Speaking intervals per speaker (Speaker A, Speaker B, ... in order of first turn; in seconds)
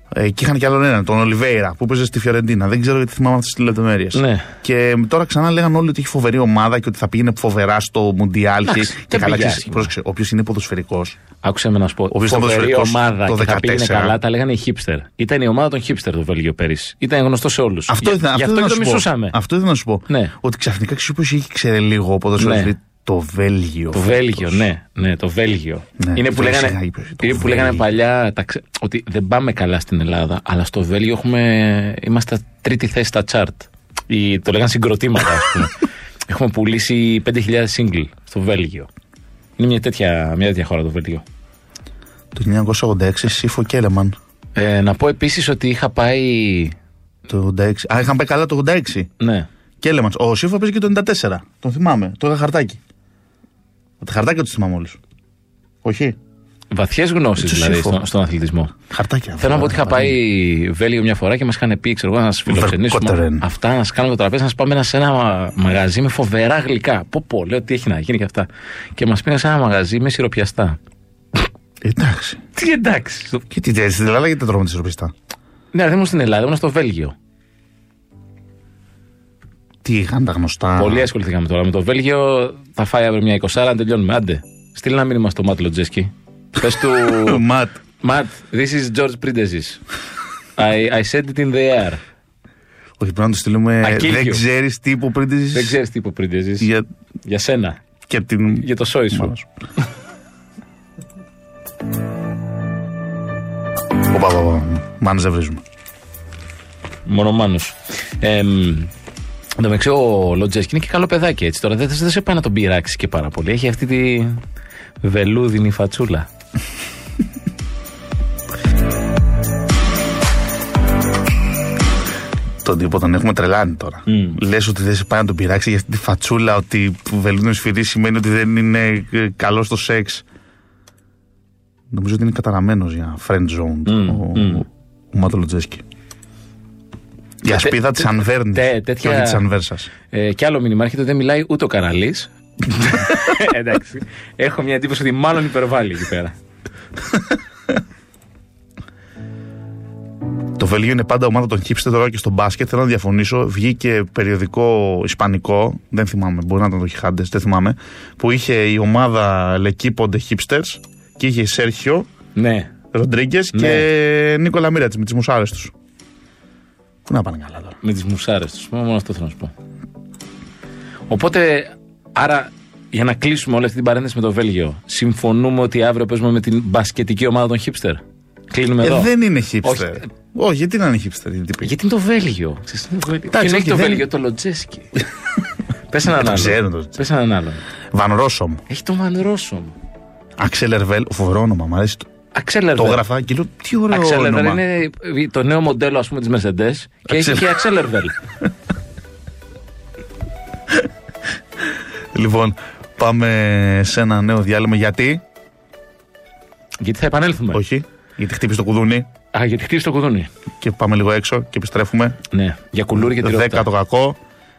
Speaker A: 0.1-11.2, 12.1-14.2, 17.9-24.7, 26.0-27.9, 42.3-44.1, 47.3-49.1, 49.8-52.8, 54.0-55.0, 55.8-56.1, 57.4-58.0, 58.9-60.2, 62.5-63.4, 71.8-72.4, 73.5-75.1, 79.8-81.1, 87.1-87.8, 93.0-95.8, 96.6-96.8, 98.1-99.5, 104.1-105.6, 122.6-130.2, 131.9-135.8, 137.4-139.9, 150.6-162.1, 162.9-165.7, 167.1-167.8, 178.8-181.7, 183.3-184.0, 186.2-187.0, 187.9-188.6, 190.4-192.1, 192.8-194.6, 197.1-197.5, 202.1-205.2, 207.5-209.1, 210.6-212.2, 213.0-214.2
Speaker B: 4.1-4.5, 8.6-9.9, 11.4-19.4, 20.1-20.3, 22.4-22.7, 23.9-35.7, 36.3-38.9, 39.6-41.2, 44.5-46.7, 49.2-49.5, 56.7-58.7, 59.4-70.8, 72.5-73.4, 75.7-77.1, 80.8-87.4, 88.0-89.8, 90.6-92.0, 93.8-94.4, 95.5-96.7, 97.2-97.8, 98.6-99.3, 107.0-108.9, 109.6-114.4, 115.0-116.3, 124.1-124.4, 133.8-134.6, 137.5-139.4, 140.1-146.3, 162.3-162.7, 163.5-163.8, 167.8-169.5, 171.1-179.1, 179.6-180.1, 181.6-185.0, 185.9-187.6, 188.7-189.7, 192.3-193.0, 193.9-198.1, 206.8-207.6, 209.3-210.3, 212.3-213.7